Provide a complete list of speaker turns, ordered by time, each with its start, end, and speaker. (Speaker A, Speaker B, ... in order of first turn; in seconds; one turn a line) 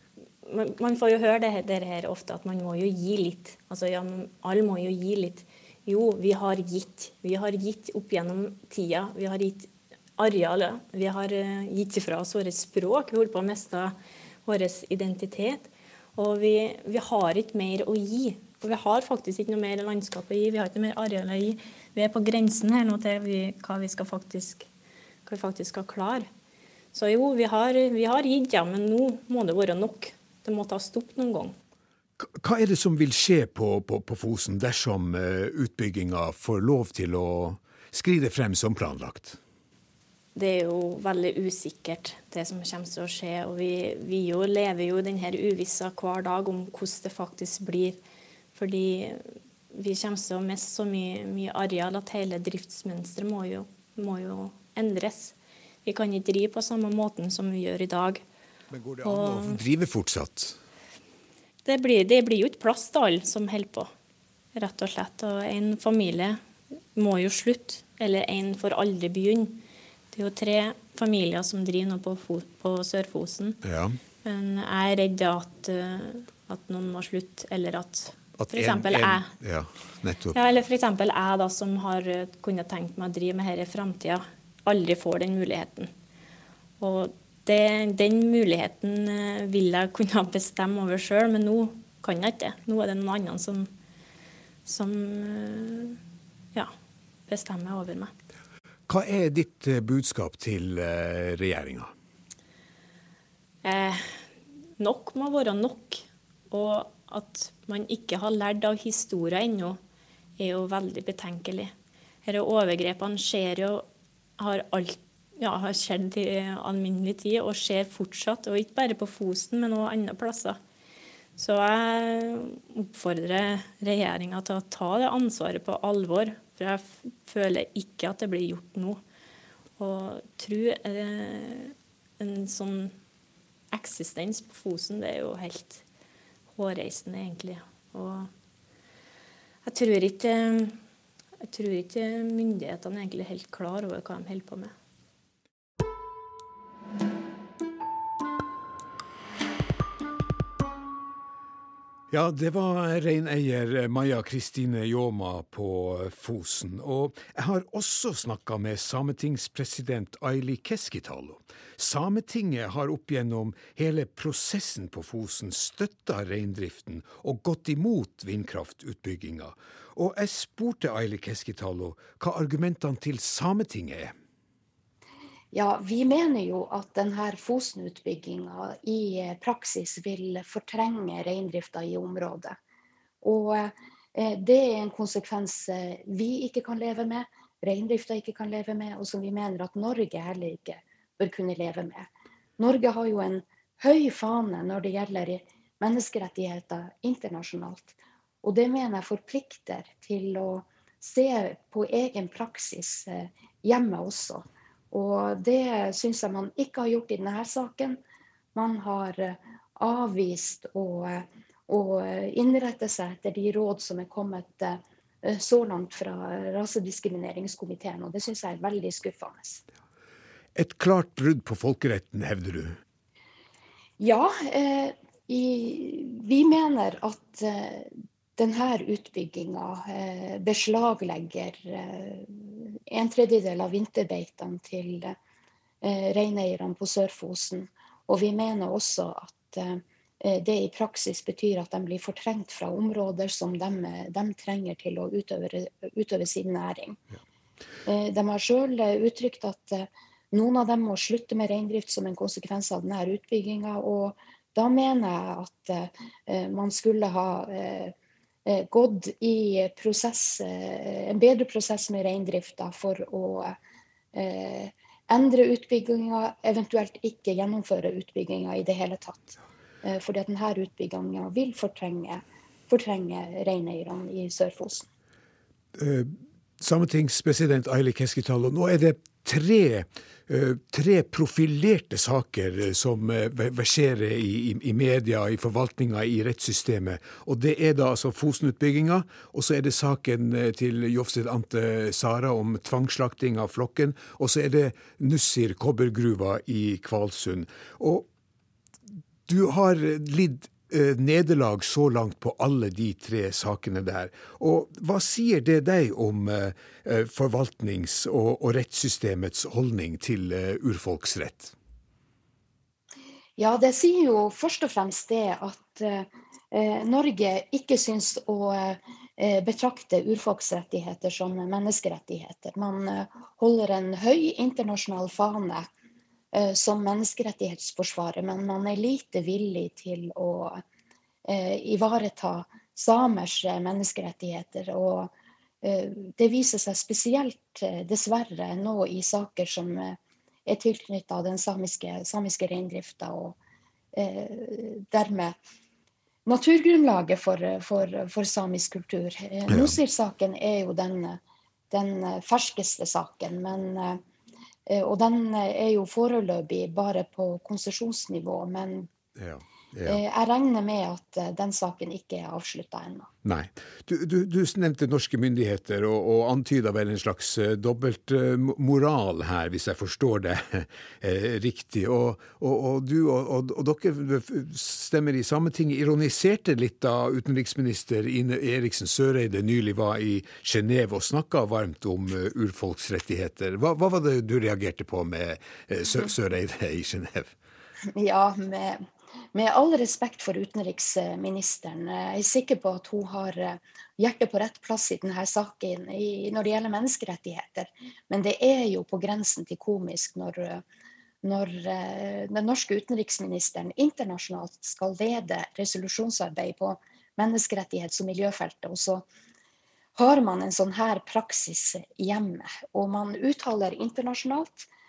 Speaker A: 0.4-24.7
Speaker A: 25.2-26.3
Speaker A: 26.9-31.5
Speaker B: 32.2-39.4
Speaker A: 40.3-48.0
Speaker A: 48.5-58.2
Speaker B: 58.7-60.6
Speaker A: 59.0-59.6
Speaker A: 61.6-63.9
Speaker A: 64.5-66.4
Speaker A: 66.9-73.6
Speaker B: 73.6-74.0
Speaker A: 74.2-79.3
Speaker B: 78.4-80.4
Speaker A: 80.3-85.9
Speaker A: 86.8-93.7
Speaker A: 94.6-96.0
Speaker A: 97.3-98.1
Speaker B: 98.9-101.9
Speaker A: 103.6-104.1
Speaker A: 104.8-109.8
Speaker A: 110.4-111.7
Speaker A: 112.2-113.8
Speaker A: 114.4-120.6
Speaker A: 121.3-129.0
Speaker A: 129.8-132.9
Speaker A: 133.7-135.8
Speaker A: 136.5-138.3
Speaker A: 139.6-140.8
Speaker A: 141.4-144.7
Speaker B: 152.1-174.1
Speaker C: 175.5-182.6
Speaker C: 183.2-208.0
Speaker C: 208.5-219.6
Speaker B: 220.5-222.8
Speaker C: 224.0-235.1
Speaker C: 235.8-247.0
Speaker C: 247.8-257.9
Speaker C: 258.4-263.6
Speaker C: 264.1-274.8
Speaker B: 275.7-298.1
Speaker B: 299.3-311.5
Speaker C: 313.4-325.7
Speaker C: 326.3-330.6
Speaker C: 331.3-335.1
Speaker C: 335.6-343.4
Speaker C: 343.9-345.4
Speaker C: 346.2-351.2
Speaker B: 349.5-349.8
Speaker C: 351.7-354.0
Speaker C: 354.7-358.9
Speaker B: 359.1-360.0
Speaker C: 359.9-363.1
Speaker B: 363.2-387.3
Speaker C: 387.9-400.6
Speaker C: 401.2-409.0
Speaker C: 409.9-414.7